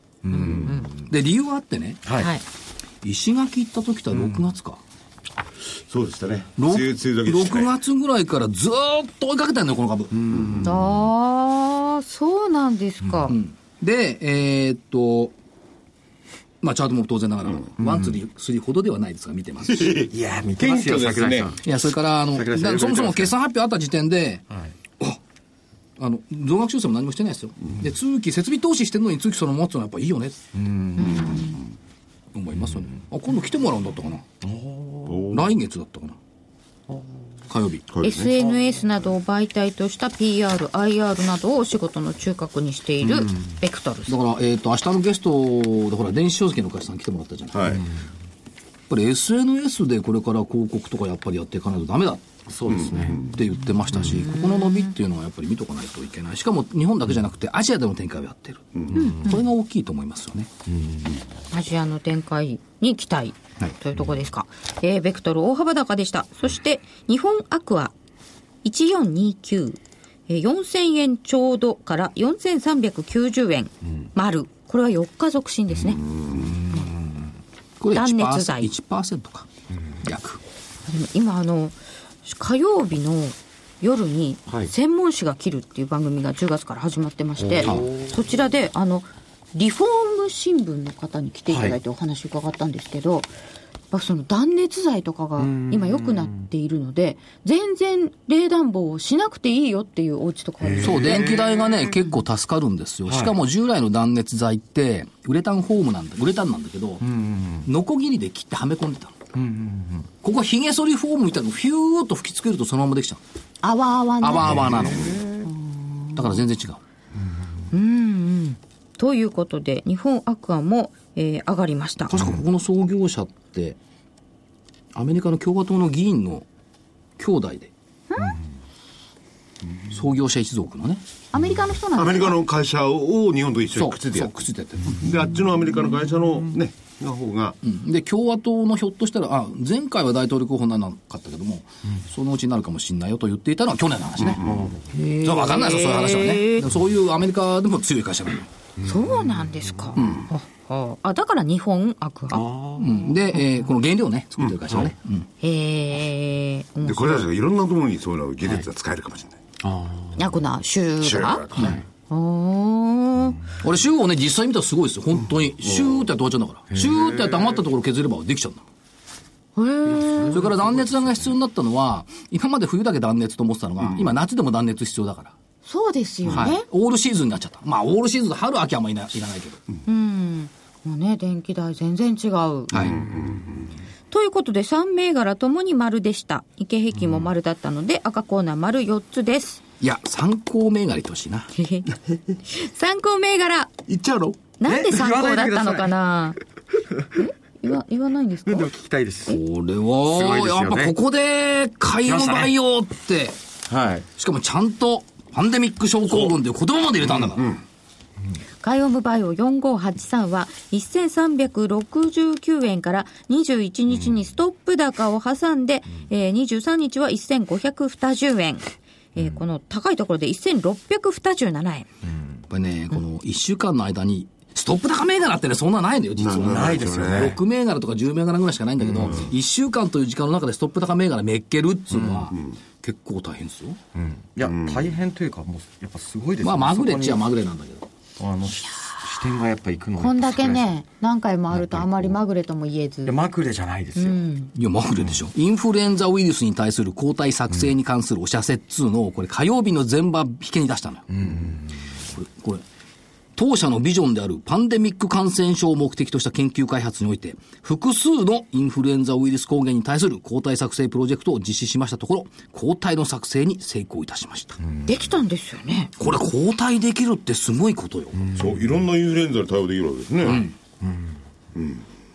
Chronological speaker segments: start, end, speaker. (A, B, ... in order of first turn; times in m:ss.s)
0:00.2-0:01.0 A
0:00.3-0:00.9 B
0:01.0-0:02.0 C
0:02.0-0:02.3 A
0:02.2-0:02.4 B
0:03.0-0:04.8 C
0:05.9-0:07.7 D
0:06.6-0:10.2 C
0:10.1-0:10.8 A
0:10.3-0:10.6 D
0:10.6-0:13.4 B
0:13.3-0:15.3 C
0:16.6-0:20.1 C
0:17.8-0:18.2 A
0:19.7-0:21.5 D
0:20.1-0:21.6 A
0:21.6-0:24.4 C
0:22.3-0:23.3 A
0:26.0-0:30.4 C
0:30.5-0:31.6 A
0:31.0-0:31.6 B
0:32.3-0:34.2 C
0:34.4-0:35.3 A
0:35.1-0:35.4 D
0:35.3-0:36.2 C
0:37.5-0:37.8 C
0:37.9-0:38.3 D
0:38.0-0:44.1 B
0:44.1-0:47.8 C
0:47.5-0:47.8 D
0:48.9-0:52.2 C
0:52.5-0:53.3 A
0:52.7-0:53.3 D
0:53.1-1:00.5 C
0:54.0-0:54.9 B
0:58.9-0:59.4 B
1:01.5-1:07.9 B
1:08.6-1:16.0 B
1:16.3-1:17.0 A
1:17.8-1:19.5 C
1:17.9-1:18.7 B
1:20.0-1:20.4 C
1:20.9-1:33.3 B
1:27.4-1:28.1 A
1:27.6-1:27.9 C
1:33.9-1:41.2 B
1:35.4-1:36.4 A
1:40.6-1:41.6 A
1:40.8-1:47.0 C
1:43.1-1:43.3 A
1:47.0-1:47.7 A
1:47.6-1:49.2 C
1:49.3-1:50.1 A
1:50.2-1:53.2 C
1:53.6-1:56.2 B
1:54.2-1:55.2 C
1:54.6-1:55.2 A
1:56.1-1:56.8 C
1:57.7-2:02.1 B
2:02.0-2:03.8 C
2:04.9-2:06.4 C
2:07.2-2:07.7 C
2:08.1-2:08.4 B
2:09.9-2:11.0 C
2:11.3-2:12.4 B
2:12.0-2:14.3 D
2:13.7-2:15.1 C
2:14.9-2:17.6 D
2:17.6-2:24.4 C
2:24.2-2:24.7 D
2:24.4-2:24.8 A
2:24.9-2:26.6 B
2:25.0-2:28.5 C
2:28.8-2:32.4 B
2:30.0-2:30.3 C
2:32.3-2:33.1 A
2:32.8-2:35.3 C
2:34.4-2:34.9 D
2:35.4-2:37.3 B
2:36.8-2:39.4 D
2:39.6-2:40.2 A
2:40.2-2:41.4 B
2:41.0-2:41.8 D
2:42.1-2:43.4 B
2:43.6-2:48.6 C
2:46.7-2:47.4 A
2:49.6-2:50.4 B
2:50.0-2:50.4 A
2:50.3-2:55.3 C
2:53.8-2:54.1 D
2:55.6-2:56.6 B
2:56.2-2:59.6 C
2:59.8-3:02.9 B
3:02.7-3:03.0 C
3:02.8-3:03.6 D
3:04.1-3:09.6 B
3:09.8-3:11.5 C
3:11.5-3:11.9 B
3:12.4-3:13.7 B
3:13.9-3:14.4 D
3:14.6-3:16.4 B
3:14.6-3:15.9 A
3:17.1-3:18.7 B
3:18.4-3:19.4 A
3:19.3-3:23.4 C
3:20.0-3:21.0 A
3:22.1-3:22.5 A
3:23.7-3:24.1 A
3:24.2-3:27.5 C
3:27.1-3:27.6 D
3:28.6-3:41.9 B
3:42.5-3:53.8 C
3:46.2-3:47.3 D
3:46.4-3:47.4 A
3:49.0-3:49.3 D
3:53.9-3:57.2 A
3:54.4-3:54.9 D
3:56.4-3:57.9 C
3:58.2-4:00.7 A
4:00.0-4:03.2 B
4:03.0-4:04.2 A
4:04.0-4:04.5 B
4:04.5-4:11.3 C
4:11.1-4:11.6 A
4:12.1-4:12.6 C
4:13.4-4:24.6 C
4:24.6-4:25.0 A
4:24.8-4:25.9 B
4:26.0-4:28.3 C
4:28.2-4:28.6 A
4:28.3-4:30.5 D
4:30.2-4:30.5 C
4:31.5-4:31.8 D